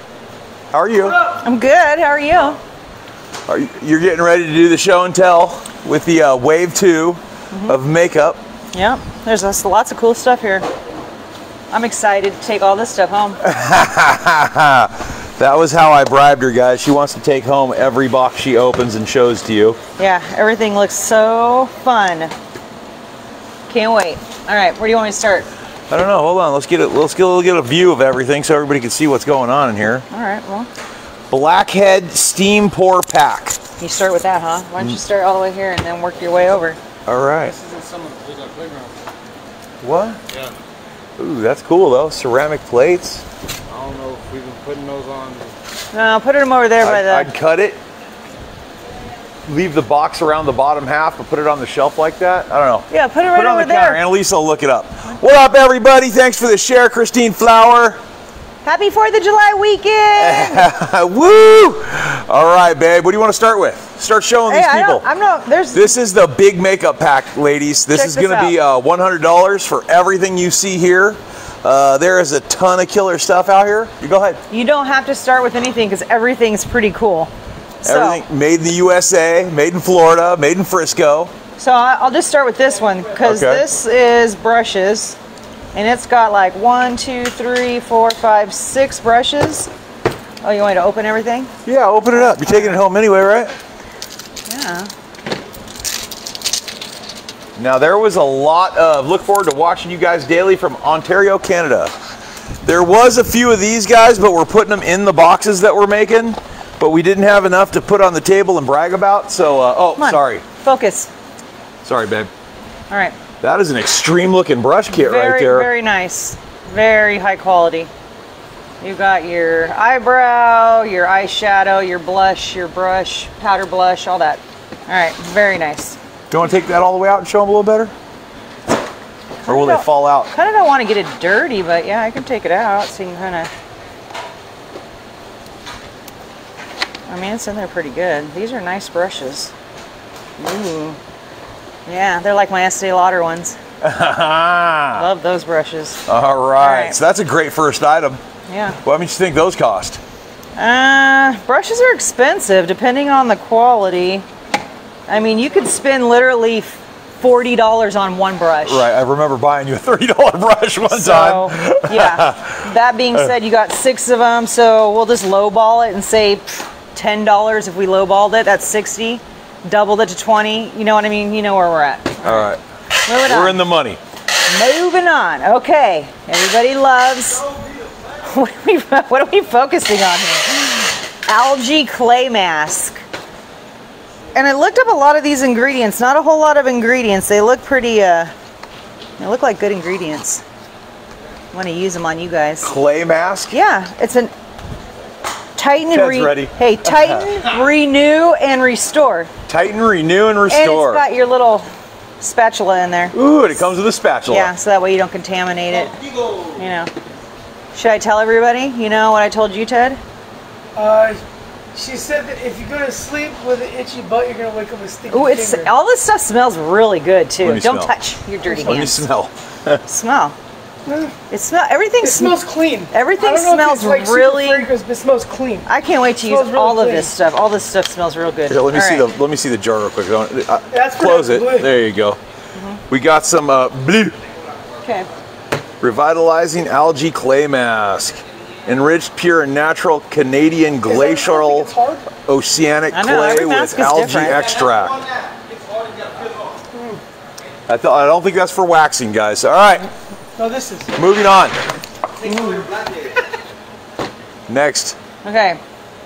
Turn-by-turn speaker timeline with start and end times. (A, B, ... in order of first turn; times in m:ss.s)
0:00.7-0:01.2 A
0:01.4-0:02.6 B
0:03.5-0:08.4 A
0:07.5-0:07.8 B
0:08.7-0:10.6 B
0:11.7-0:13.4 B
0:13.4-0:19.8 A
0:20.0-0:22.3 B
0:23.7-0:25.5 B
0:25.9-0:30.0 A
0:30.1-0:30.7 B
0:31.3-0:33.6 A
0:33.8-0:36.8 B
0:37.0-0:37.5 A
0:37.4-0:39.0 C
0:39.8-0:40.2 A
0:41.2-0:43.2 A
0:43.7-0:45.6 C
0:45.9-0:47.3 B
0:46.8-0:47.8 A
0:49.4-0:58.0 A
0:52.9-0:54.0 B
0:58.6-1:00.7 B
1:00.2-1:05.0 A
1:04.5-1:06.0 B
1:05.7-1:14.4 A
1:07.9-1:08.5 B
1:14.5-1:17.3 B
1:17.8-1:18.2 B
1:17.8-1:21.3 A
1:21.6-1:25.2 B
1:23.2-1:23.6 A
1:25.7-1:29.7 B
1:30.4-1:31.5 B
1:31.6-1:33.5 A
1:32.1-1:32.8 B
1:34.5-1:34.9 B
1:37.6-1:41.9 A
1:42.6-1:50.4 A
1:50.0-1:51.1 B
1:51.8-1:52.3 A
1:52.9-1:53.2 B
1:53.4-1:55.7 A
1:54.9-1:57.9 B
1:58.8-2:06.0 B
2:06.3-2:07.9 A
2:09.4-2:13.5 B
2:09.5-2:10.3 A
2:17.1-2:19.5 B
2:20.4-2:21.0 B
2:21.8-2:23.6 B
2:23.8-2:25.1 A
2:24.9-2:26.0 B
2:26.1-2:28.2 A
2:26.6-2:27.0 B
2:28.5-2:28.8 B
2:28.8-2:30.0 A
2:30.6-2:34.2 B
2:35.1-2:38.8 B
2:38.6-2:43.3 A
2:40.9-2:52.5 B
2:52.2-2:54.0 A
2:53.0-2:53.6 B
2:54.5-2:57.4 B
2:58.2-3:03.0 B
3:04.3-3:08.3 B
3:09.2-3:10.4 B
3:11.5-3:12.7 B
3:12.6-3:13.6 A
3:13.5-3:14.3 B
3:15.6-3:19.3 B
3:15.9-3:17.4 A
3:19.5-3:21.0 A
3:20.5-3:21.7 B
3:22.2-3:23.1 B
3:23.1-3:24.5 A
3:24.3-3:26.0 B
3:26.5-3:26.9 B
3:27.7-3:30.0 B
3:30.8-3:31.2 D
3:31.7-3:35.7 D
3:35.1-3:39.0 B
3:37.4-3:37.9 A
3:38.4-3:39.8 A
3:39.8-3:40.3 B
3:40.8-3:41.1 D
3:41.3-3:42.3 B
3:42.0-3:45.7 D
3:42.9-3:44.7 B
3:45.7-3:49.0 B
3:46.2-3:47.1 D
3:48.5-3:52.2 A
3:50.7-3:51.7 D
3:52.6-3:52.8 B
3:52.9-3:54.2 A
3:54.8-3:55.1 B
3:55.8-4:05.0 A
4:00.8-4:02.1 D
4:02.9-4:04.5 B
4:06.7-4:07.0 D
4:07.7-4:09.9 A
4:10.4-4:10.9 D
4:11.0-4:11.6 A
4:12.2-4:12.7 B
4:14.5-4:15.0 A
4:15.2-4:15.6 B